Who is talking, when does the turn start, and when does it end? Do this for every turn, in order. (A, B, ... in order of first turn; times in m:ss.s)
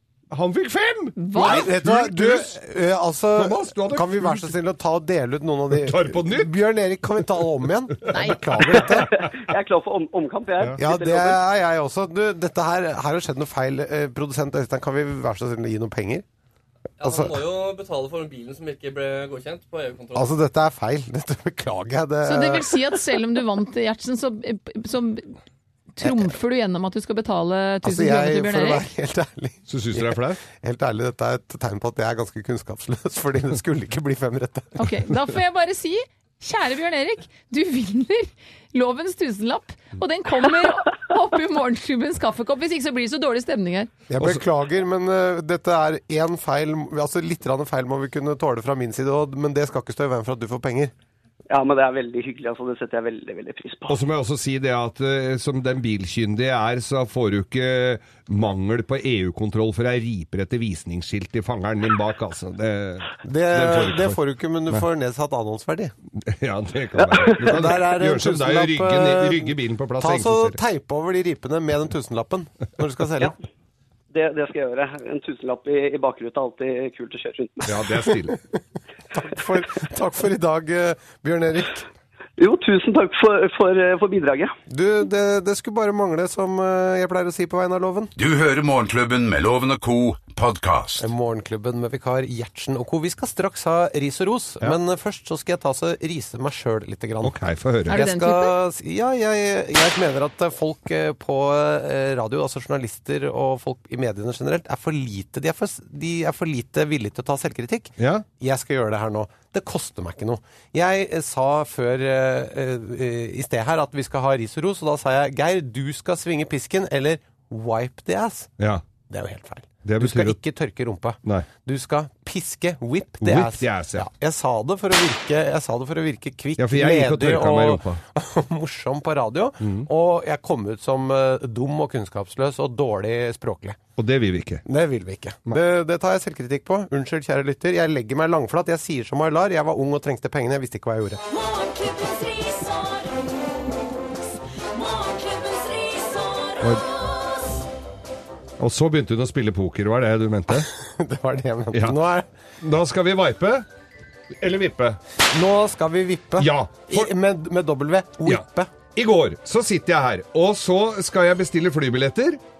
0:00.3-0:02.6 A
0:01.2-0:01.7 B
0:01.4-0:09.2 C
0:03.4-0:04.5 A
0:05.7-0:06.6 A
0:08.0-0:09.5 A
0:08.1-0:08.5 B
0:08.9-0:11.4 D
0:10.8-0:16.2 C
0:17.0-0:20.3 E
0:17.0-0:17.4 C
0:20.1-0:22.9 C
0:22.2-0:25.4 B
0:26.0-0:28.8 B
0:26.0-0:26.3 C
0:27.8-0:34.9 C
0:29.7-0:30.4 A
0:34.8-0:43.9 B
0:44.1-0:50.9 C
0:51.5-0:54.0 D
0:53.9-1:04.2 A
1:03.2-1:05.9 C
1:06.2-1:10.6 A
1:07.0-1:07.5 D
1:07.4-1:13.3 C
1:14.1-1:17.8 D
1:17.6-1:18.4 A
1:19.1-1:21.9 C
1:22.4-1:24.5 D
1:24.7-1:28.1 C
1:28.2-1:31.1 F
1:31.0-1:58.5 C
1:37.2-1:38.0 A
1:37.9-1:38.5 B
1:48.0-1:48.2 A
1:59.1-2:13.8 C
1:59.8-2:00.4 A
2:03.2-2:04.1 A
2:06.6-2:08.0 A
2:09.6-2:09.9 A
2:14.0-2:14.6 A
2:14.6-2:21.2 C
2:21.3-2:23.9 G
2:24.6-2:27.6 G
2:28.6-2:30.7 A
2:30.6-2:32.3 C
2:32.6-2:33.6 A
2:34.4-2:35.0 A
2:35.3-2:38.7 C
2:36.4-2:37.1 A
2:38.9-2:42.4 A